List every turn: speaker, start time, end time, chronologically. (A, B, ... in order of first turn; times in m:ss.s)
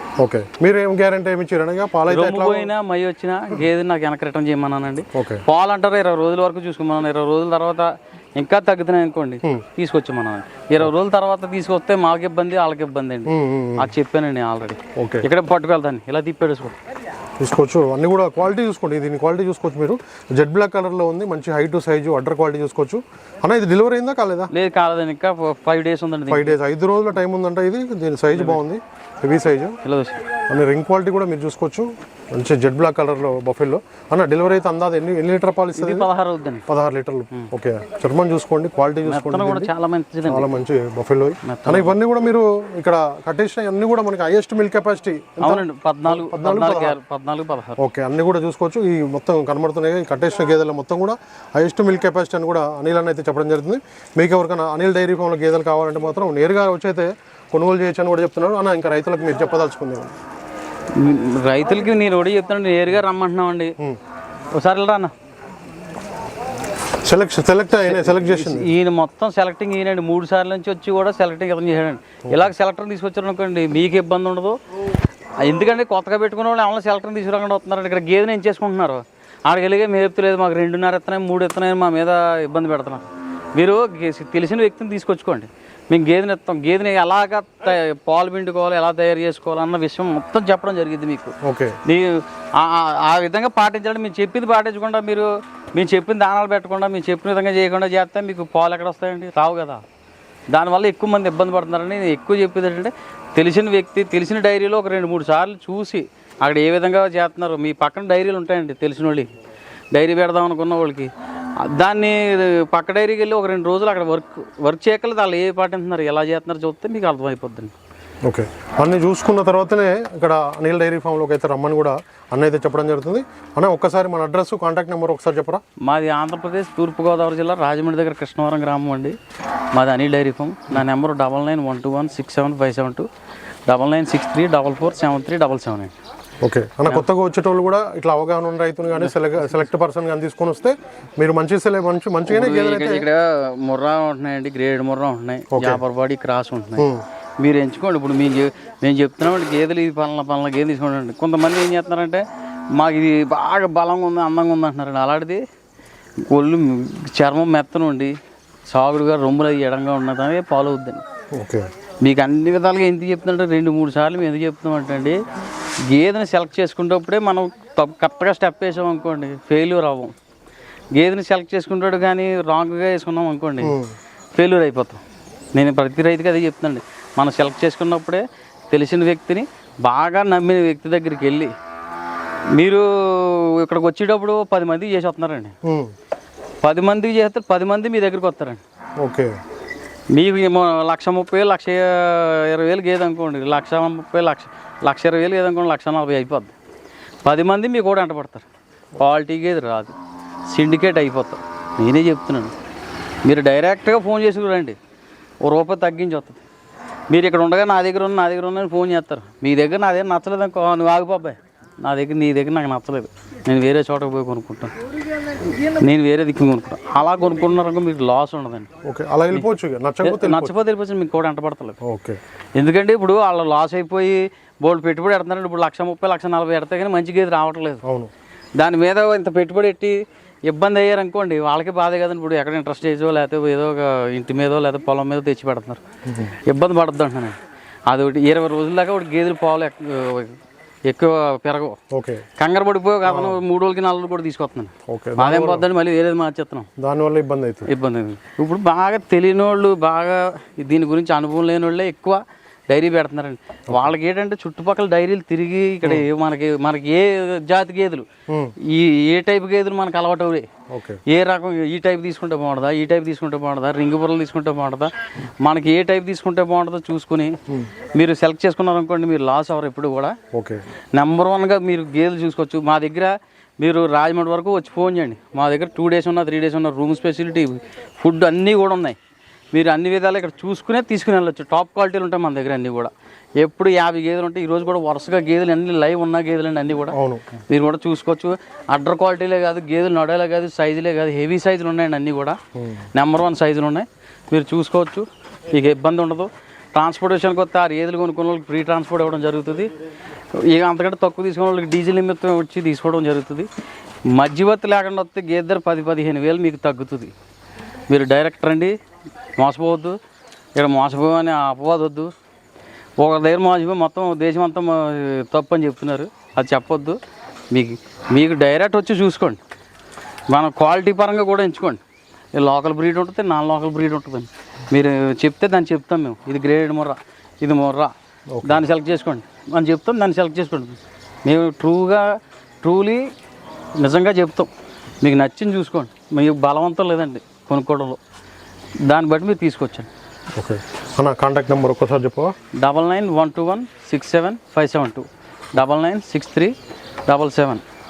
0:00.2-0:02.7 A
0:02.1-0:16.8 B
0:05.1-0:05.4 A
0:13.3-0:13.9 A
0:15.0-0:15.2 A
0:17.4-0:24.5 A
0:24.5-0:26.6 B
0:26.3-0:29.8 A
0:28.3-0:28.6 B
0:29.8-0:30.2 B
0:30.5-0:36.1 A
0:35.8-0:36.6 B
0:36.7-0:39.7 A
0:39.0-0:40.5 B
0:40.3-0:47.0 A
0:41.4-0:41.9 B
0:45.4-0:47.8 B
0:47.8-1:00.1 A
1:00.9-1:03.7 B
1:04.5-1:05.1 B
1:07.0-1:08.7 A
1:07.8-1:14.6 B
1:15.4-1:23.0 B
1:23.6-1:39.8 B
1:31.4-1:31.8 A
1:40.5-1:49.3 B
1:49.9-1:57.7 B
1:58.2-2:05.6 A
2:05.8-2:09.2 B
2:09.7-2:13.1 B
2:13.7-2:15.9 B
2:16.4-2:23.1 A
2:22.2-2:26.9 B
2:25.5-2:25.8 A
2:26.8-2:27.0 A
2:27.4-2:32.2 B
2:32.7-2:35.4 B
2:36.3-2:38.1 B
2:38.7-2:41.0 B
2:41.3-2:41.7 A
2:42.0-2:45.2 B
2:45.9-2:50.1 B
2:50.9-2:53.8 B
2:53.6-2:53.9 A
2:54.3-2:55.0 B
2:55.5-3:01.5 B
3:02.6-3:05.5 B
3:05.6-3:05.9 A
3:06.6-3:08.6 B
3:09.0-3:09.3 A
3:10.1-3:16.5 B
3:17.2-3:20.0 B
3:20.5-3:22.5 B
3:23.2-3:24.8 B
3:25.4-3:26.4 B
3:27.1-3:34.7 B
3:35.6-3:38.7 B
3:38.8-3:40.6 A
3:40.0-3:41.8 B
3:41.8-3:42.2 A
3:42.6-3:47.8 B
3:47.8-3:48.1 A
3:48.6-3:55.8 B
3:56.1-3:56.3 A
3:56.4-3:57.3 B
3:57.9-4:01.8 B
4:01.9-4:02.2 A
4:02.4-4:06.7 B
4:03.0-4:03.4 A
4:04.9-4:05.7 A
4:06.8-4:07.7 A
4:07.7-4:18.0 B
4:18.3-4:18.5 A
4:18.6-4:20.5 B
4:20.7-4:21.0 A
4:21.1-4:27.4 B
4:27.9-4:30.1 B
4:30.3-4:30.6 A
4:30.9-4:39.0 B
4:39.5-4:47.0 B
4:46.9-4:47.2 A
4:47.5-4:52.4 B
4:52.6-4:52.8 A
4:52.9-4:59.7 B
5:00.4-5:03.5 B
5:04.1-5:07.1 B
5:07.9-5:08.8 B
5:09.4-5:10.0 B
5:10.6-5:12.1 B
5:13.0-5:17.0 B
5:17.5-5:19.4 B
5:20.3-5:21.8 B
5:22.3-5:33.1 B
5:28.3-5:28.6 A
5:33.8-5:34.5 B
5:35.0-5:38.0 B
5:38.9-5:39.9 B
5:40.4-5:42.3 A
5:42.6-5:46.5 B
5:47.0-5:47.6 B